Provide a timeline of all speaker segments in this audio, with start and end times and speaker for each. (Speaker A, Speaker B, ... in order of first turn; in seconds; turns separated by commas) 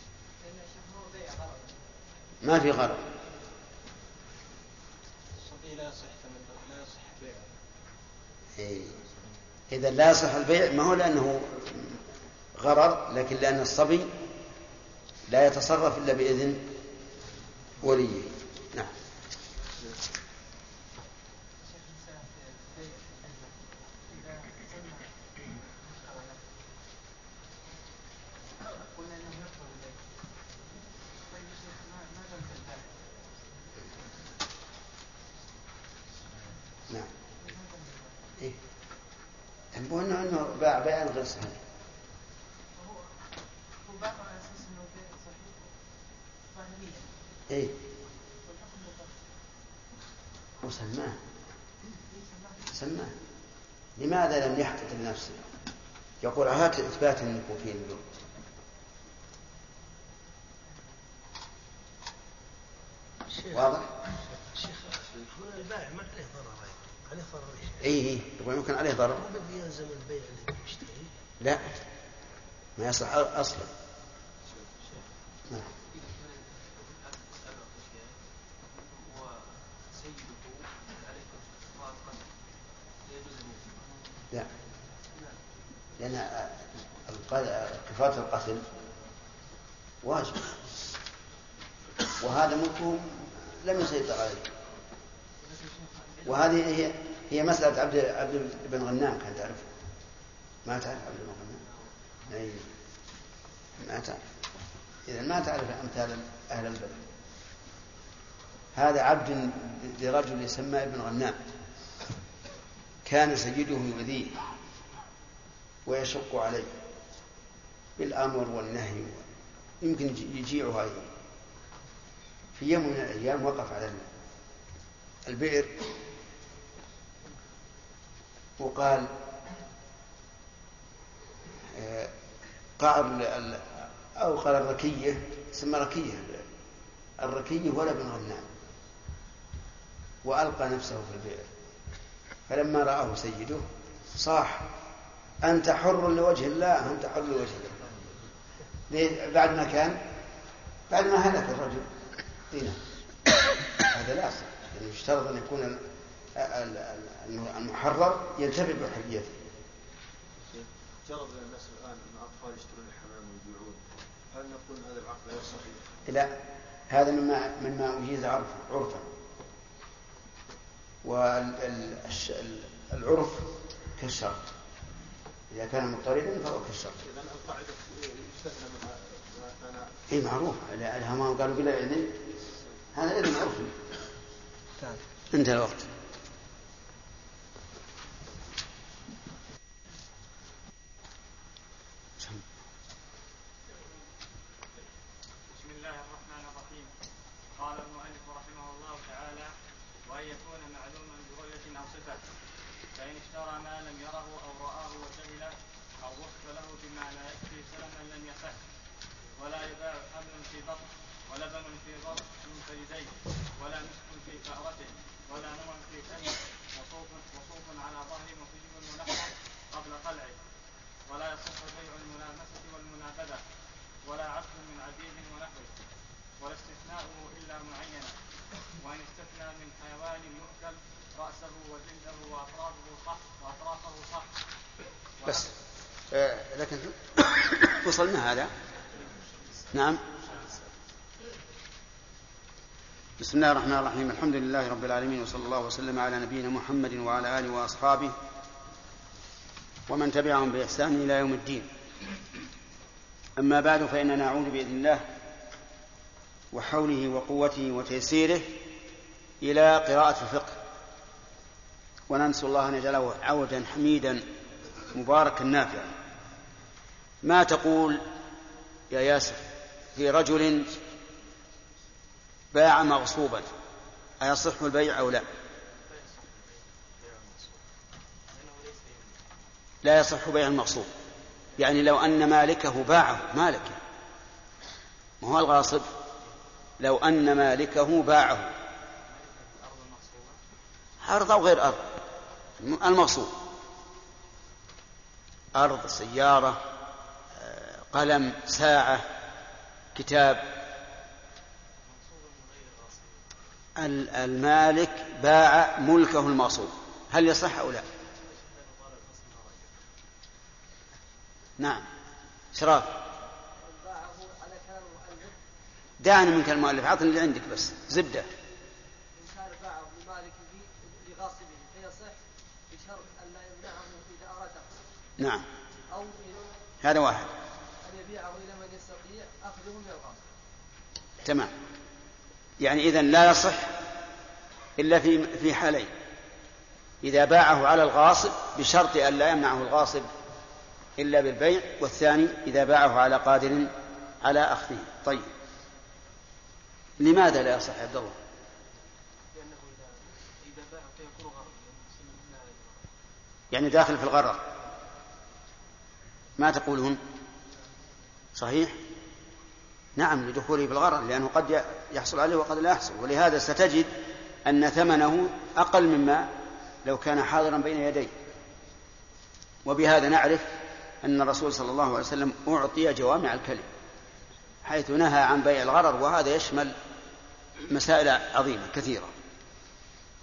Speaker A: 2.4-3.1, Speaker B: 5.4-7.5, Speaker A: 8.6-8.9, Speaker A: 9.7-12.0, Speaker A: 12.6-14.1, Speaker A: 15.3-16.7, Speaker A: 17.8-18.9, Speaker C: 22.2-23.0, Speaker C: 29.0-29.9, Speaker C: 31.3-32.8, Speaker A: 39.7-41.6, Speaker C: 43.9-45.4, Speaker A: 47.5-47.8, Speaker A: 50.6-51.2, Speaker A: 52.7-53.1, Speaker A: 54.0-55.4, Speaker A: 56.2-58.0, Speaker D: 63.3-67.9, Speaker A: 63.5-63.9, Speaker A: 67.8-69.2, Speaker D: 69.1-71.1, Speaker A: 71.4-71.7, Speaker A: 72.8-73.7, Speaker B: 74.5-74.9, Speaker C: 76.0-78.1, Speaker C: 79.0-82.2, Speaker C: 83.1-83.8, Speaker A: 86.0-88.6, Speaker A: 90.0-90.5, Speaker A: 92.2-94.5, Speaker A: 96.2-99.7, Speaker A: 100.6-101.6, Speaker A: 102.3-102.7, Speaker A: 103.8-104.2, Speaker A: 105.1-107.0, Speaker A: 108.8-111.4, Speaker A: 113.0-114.4, Speaker A: 115.9-116.8, Speaker A: 118.0-119.3, Speaker A: 119.8-121.1, Speaker A: 122.6-124.1, Speaker A: 125.3-125.8, Speaker A: 128.6-129.1, Speaker A: 131.7-132.1, Speaker A: 132.8-136.5, Speaker A: 137.2-138.5, Speaker A: 140.2-141.5, Speaker A: 142.5-144.7, Speaker A: 145.4-147.8, Speaker A: 148.9-150.0, Speaker A: 150.9-151.9, Speaker A: 152.5-152.8, Speaker A: 153.8-159.4, Speaker B: 160.5-166.0, Speaker A: 166.1-166.3, Speaker A: 166.9-169.1, Speaker A: 171.0-174.4, Speaker A: 175.5-177.0, Speaker B: 177.0-179.9, Speaker A: 180.1-182.2, Speaker A: 182.9-183.8, Speaker A: 185.3-185.9, Speaker E: 195.5-196.9, Speaker E: 197.6-199.5, Speaker E: 200.0-202.2, Speaker E: 202.9-208.6, Speaker E: 209.3-220.4, Speaker E: 221.1-223.4, Speaker E: 224.0-225.7, Speaker E: 226.4-228.2, Speaker E: 228.8-234.3, Speaker A: 235.2-235.5, Speaker A: 236.1-238.5, Speaker A: 239.7-240.0, Speaker A: 243.2-248.2, Speaker A: 249.9-251.7, Speaker A: 253.4-255.0, Speaker A: 256.5-258.6, Speaker A: 259.4-260.6, Speaker A: 262.1-264.2, Speaker A: 264.9-265.9, Speaker A: 267.2-268.1, Speaker A: 268.9-270.8, Speaker A: 272.5-273.5, Speaker A: 274.2-275.2, Speaker B: 277.0-277.6, Speaker C: 278.4-279.0, Speaker A: 279.8-280.9, Speaker A: 281.6-283.8, Speaker A: 285.2-285.9, Speaker A: 286.8-288.5, Speaker A: 291.0-291.9, Speaker A: 292.6-293.3, Speaker A: 295.5-296.6, Speaker A: 297.4-299.1, Speaker A: 299.9-300.5, Speaker A: 303.8-307.8, Speaker A: 311.6-311.9, Speaker A: 312.5-313.0, Speaker C: 313.6-315.3, Speaker A: 316.0-318.3, Speaker C: 319.1-322.1, Speaker C: 322.7-324.8, Speaker A: 325.2-325.4, Speaker C: 325.9-326.6, Speaker A: 326.8-327.3, Speaker C: 327.9-330.2, Speaker A: 331.2-331.5, Speaker A: 332.6-333.8, Speaker A: 334.8-335.9, Speaker A: 337.0-340.1, Speaker A: 341.0-345.3, Speaker A: 347.0-348.1, Speaker C: 349.3-352.9, Speaker A: 353.5-354.4, Speaker A: 356.4-357.0, Speaker A: 358.4-358.8, Speaker A: 360.0-363.9, Speaker A: 364.4-366.3, Speaker A: 366.9-368.1, Speaker A: 369.6-373.7, Speaker A: 374.6-376.8, Speaker A: 377.7-379.1